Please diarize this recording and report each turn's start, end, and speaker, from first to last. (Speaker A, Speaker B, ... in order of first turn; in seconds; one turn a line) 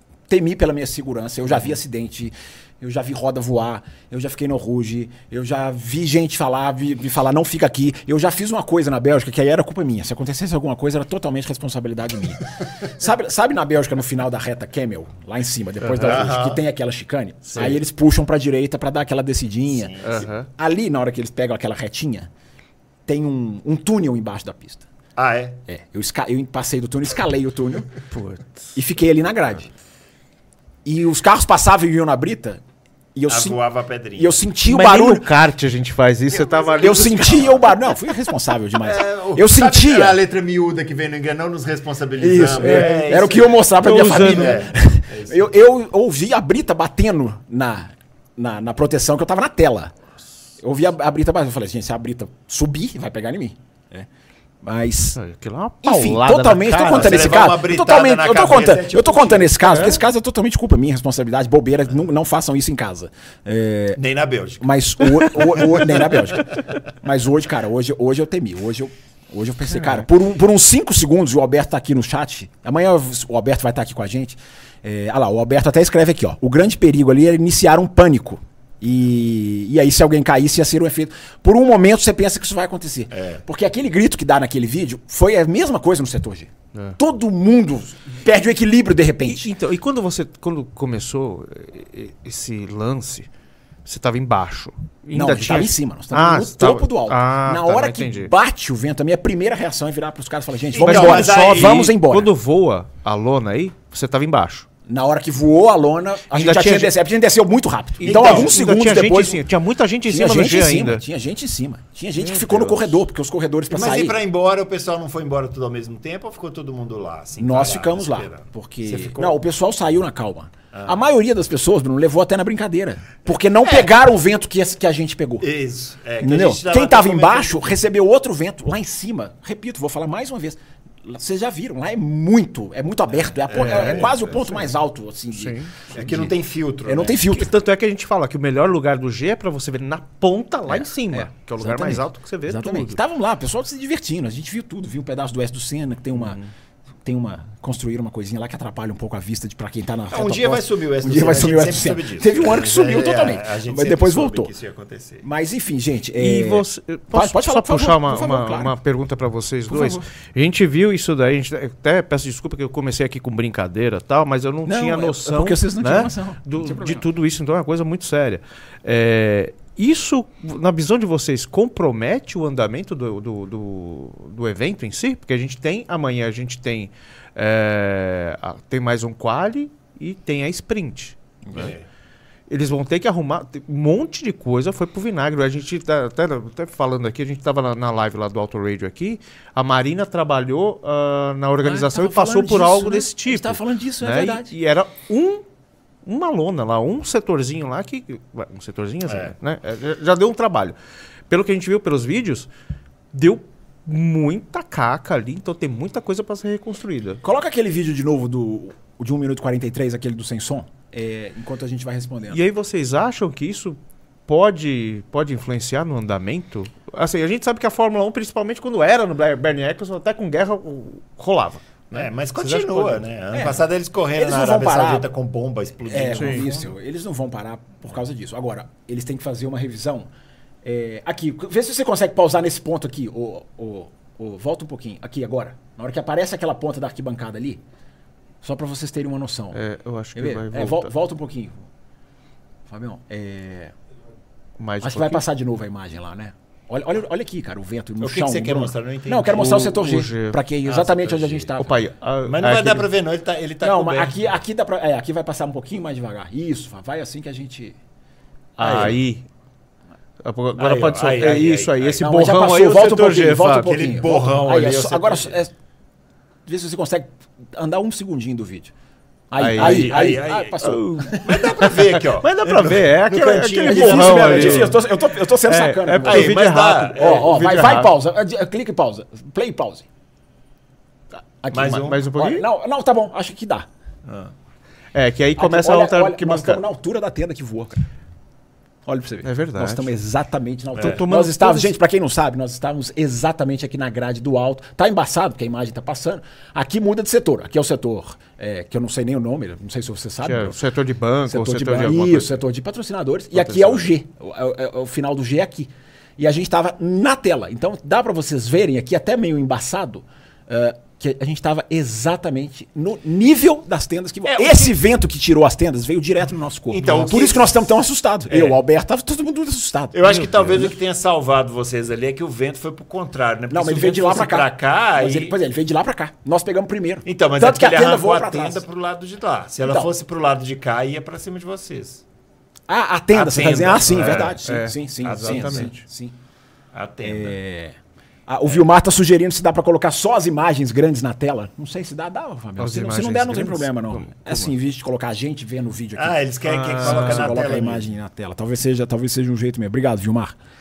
Speaker A: 0.3-22.3
Speaker B: 15.9-16.6
Speaker B: 17.5-17.8
Speaker B: 19.7-20.2
Speaker C: 20.0-20.5
Speaker A: 23.1-24.9
Speaker B: 25.2-25.6
Speaker A: 25.7-27.9
Speaker C: 28.1-28.7
Speaker A: 28.8-29.7
Speaker A: 30.9-32.6
Speaker A: 33.1-33.6
Speaker B: 33.3-34.4
Speaker A: 34.1-35.3
Speaker C: 34.6-37.5
Speaker B: 36.3-37.7
Speaker A: 36.8-40.2
Speaker B: 38.8-45.5
Speaker A: 42.2-49.9
Speaker C: 42.6-43.0
Speaker C: 43.8-44.6
Speaker A: 50.6-54.1
Speaker A: 54.6-55.2
Speaker C: 55.1-57.5
Speaker A: 55.8-64.0
Speaker B: 56.9-59.9
Speaker C: 59.7-60.0
Speaker B: 64.0-65.4
Speaker A: 64.6-89.5
Speaker B: 83.1-83.4
Speaker C: 89.3-93.3
Speaker C: 93.8-98.3
Speaker A: 95.1-102.3
Speaker B: 100.7-101.9
Speaker C: 100.8-104.7
Speaker A: 104.9-109.5
Speaker C: 106.3-106.9
Speaker C: 108.0-111.0
Speaker B: 108.0-108.6
Speaker A: 110.1-114.2
Speaker C: 112.2-112.9
Speaker B: 113.7-119.4
Speaker A: 117.4-125.5
Speaker B: 120.7-121.0
Speaker B: 123.3-123.9
Speaker B: 125.4-127.7
Speaker A: 126.2-136.3
Speaker B: 133.4-134.2
Speaker C: 133.6-134.5
Speaker C: 135.3-135.8
Speaker B: 135.9-137.2
Speaker A: 136.8-137.6
Speaker C: 137.3-143.0
Speaker A: 140.7-146.4
Speaker C: 146.2-146.5
Speaker A: 147.1-154.5
Speaker B: 150.1-155.2
Speaker A: 155.2-158.8
Speaker C: 156.2-181.7
Speaker A: 159.7-160.1
Speaker A: 164.7-167.1
Speaker A: 181.5-181.7
Speaker B: 181.5-181.8
Speaker C: 182.5-195.4
Speaker A: 191.6-194.5
Speaker C: 196.1-200.8
Speaker B: 199.1-199.3
Speaker C: 201.3-202.5
Speaker C: 203.1-207.2
Speaker A: 207.2-212.4
Speaker C: 212.3-223.1
Speaker B: 221.9-226.7
Speaker A: 223.3-225.1
Speaker A: 225.8-230.1
Speaker C: 226.2-226.5
Speaker A: 230.6-237.6
Speaker A: 238.4-239.6
Speaker C: 239.5-240.9
Speaker A: 240.2-241.7
Speaker A: 242.7-243.7
Speaker C: 244.6-245.2
Speaker A: 244.8-251.8
Speaker B: 248.0-249.8
Speaker C: 249.4-250.4
Speaker B: 250.7-251.5
Speaker C: 251.6-252.9
Speaker B: 252.3-254.2
Speaker A: 253.6-257.8
Speaker C: 258.6-259.3
Speaker B: 258.6-259.0
Speaker C: 260.2-263.7
Speaker B: 260.6-262.0
Speaker A: 262.0-265.5
Speaker B: 263.6-265.4
Speaker A: 266.5-268.7
Speaker A: 269.3-271.7
Speaker C: 269.4-274.8
Speaker B: 269.6-274.8
Speaker A: 273.7-276.4
Speaker C: 275.4-277.9
Speaker B: 276.0-277.4
Speaker A: 277.0-279.9
Speaker A: 281.4-283.7
Speaker B: 281.5-282.0
Speaker C: 281.5-282.4
Speaker B: 284.1-284.3
Speaker C: 284.9-286.6
Speaker A: 285.4-287.8
Speaker A: 288.9-300.6
Speaker C: 289.2-289.9
Speaker C: 290.8-291.7
Speaker C: 300.2-302.3
Speaker A: 301.3-320.8
Speaker C: 303.3-303.9
Speaker B: 314.3-314.7
Speaker B: 316.7-317.7
Speaker B: 318.3-318.6
Speaker B: 319.9-325.4
Speaker A: 323.5-328.6
Speaker B: 327.1-332.0
Speaker A: 329.6-329.9
Speaker A: 332.7-336.1
Speaker B: 333.1-334.4
Speaker C: 333.9-335.8
Speaker B: 335.0-335.7
Speaker B: 336.7-337.4
Speaker A: 337.0-337.8
Speaker A: 338.3-346.2
Speaker C: 342.6-344.5
Speaker B: 346.0-347.9
Speaker C: 346.4-347.4
Speaker A: 346.8-350.4